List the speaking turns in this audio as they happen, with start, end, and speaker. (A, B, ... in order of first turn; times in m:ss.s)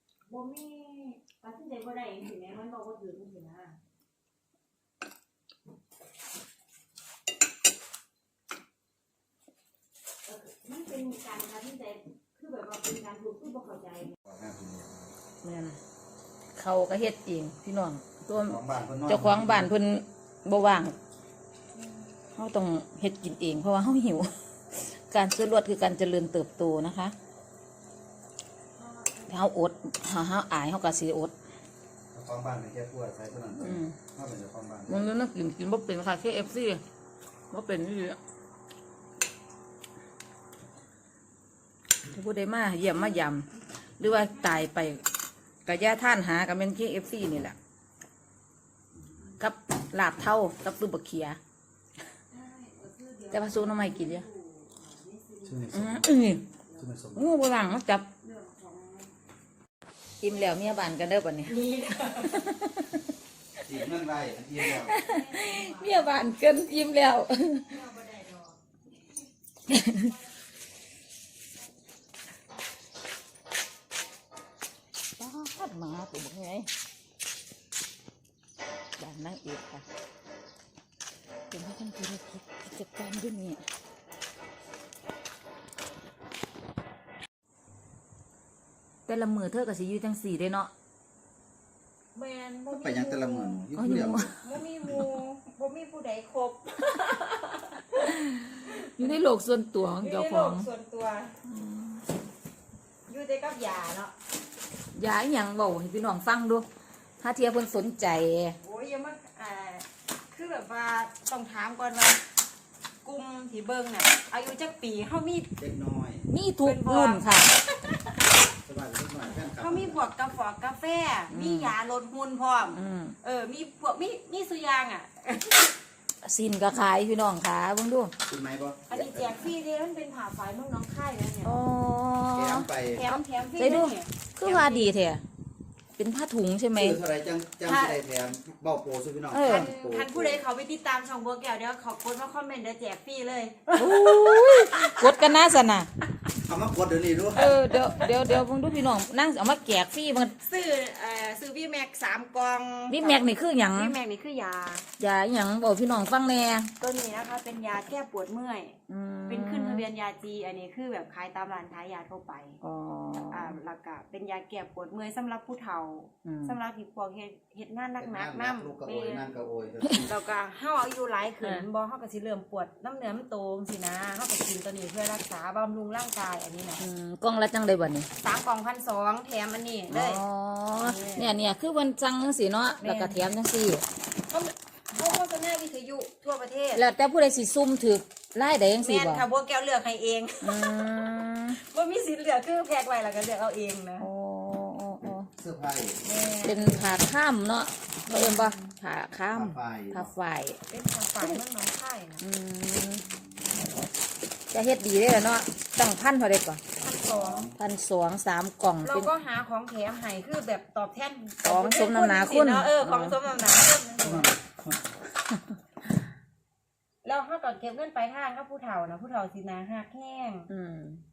0:00.3-0:03.8 A
0:10.3-0:14.2 A
0:14.2-0:15.1 B
0:15.4-0:15.8 C
0:16.6-0:21.0 C
0:18.4-0:19.7 B
0:21.8-0:22.1 A
0:22.4-0:27.1 C
0:28.8-0:29.3 A
0:29.3-0:31.3 C
0:32.1-0:35.1 B
0:33.6-0:34.0 C
0:34.9-0:36.8 C
0:37.5-0:38.2 C
0:42.1-0:43.5 C
0:44.0-0:45.0 C
0:45.6-0:47.6 C
0:49.4-0:51.4 C
0:52.3-0:56.9 A
0:53.3-0:54.2 C
0:55.4-0:56.1 B
0:55.7-0:56.4 C
0:56.8-0:57.3 B
0:57.2-0:58.1 C
0:58.2-0:59.1 A
1:00.2-1:01.6 C
1:01.5-1:02.6 A
1:02.2-1:02.9 C
1:03.6-1:04.9 B
1:04.6-1:07.7 C
1:04.7-1:06.5 A
1:07.7-1:08.6 A
1:09.7-1:10.0 C
1:15.2-1:16.7 C
1:19.0-1:19.8 C
1:21.5-1:23.6 C
1:29.1-1:30.7 C
1:32.2-1:33.6 A
1:32.7-1:34.4 B
1:33.8-1:34.3 C
1:34.4-1:39.2 A
1:38.0-1:40.7 C
1:40.0-1:41.3 A
1:41.5-1:42.0 C
1:43.1-1:44.1 A
1:44.9-1:46.7 C
1:47.2-1:48.6 C
1:48.6-1:52.2 A
1:53.0-1:55.5 A
1:55.6-1:56.3 B
1:56.3-1:57.6 C
1:56.6-1:58.0 A
1:58.6-2:00.0 B
1:59.6-2:05.7 A
2:01.3-2:01.7 C
2:02.7-2:03.2 C
2:06.2-2:08.1 C
2:08.3-2:09.4 B
2:08.9-2:11.5 A
2:11.4-2:12.7 C
2:12.3-2:13.1 B
2:12.9-2:14.9 A
2:13.6-2:15.2 C
2:16.0-2:17.0 C
2:16.8-2:20.4 B
2:17.6-2:18.0 A
2:19.3-2:19.7 C
2:19.4-2:25.3 A
2:23.8-2:25.9 C
2:26.4-2:27.5 B
2:27.4-2:30.4 C
2:27.5-2:28.4 A
2:30.4-2:34.8 A
2:32.9-2:33.9 C
2:35.0-2:36.7 C
2:36.8-2:38.8 A
2:38.9-2:39.8 C
2:39.3-2:42.6 A
2:42.6-2:43.6 C
2:43.3-2:49.3 A
2:46.2-2:46.6 C
2:48.0-2:50.2 B
2:50.0-2:56.8 A
2:56.8-2:58.1 C
2:58.2-3:00.2 A
2:59.9-3:03.8 C
3:00.7-3:01.4 A
3:02.8-3:03.3 A
3:04.3-3:06.8 A
3:06.8-3:09.2 C
3:08.8-3:10.8 A
3:10.4-3:11.6 C
3:11.5-3:14.1 A
3:14.0-3:15.3 C
3:15.4-3:16.0 B
3:16.0-3:17.1 A
3:16.4-3:20.6 C
3:18.1-3:18.7 A
3:19.3-3:20.1 B
3:20.7-3:22.2 A
3:22.2-3:23.0 C
3:24.5-3:26.6 C
3:26.8-3:27.5 A
3:27.0-3:27.6 B
3:27.6-3:29.1 C
3:28.8-3:34.3 A
3:31.4-3:33.2 C
3:34.0-3:34.8 B
3:37.0-3:40.5 A
3:40.5-3:41.0 C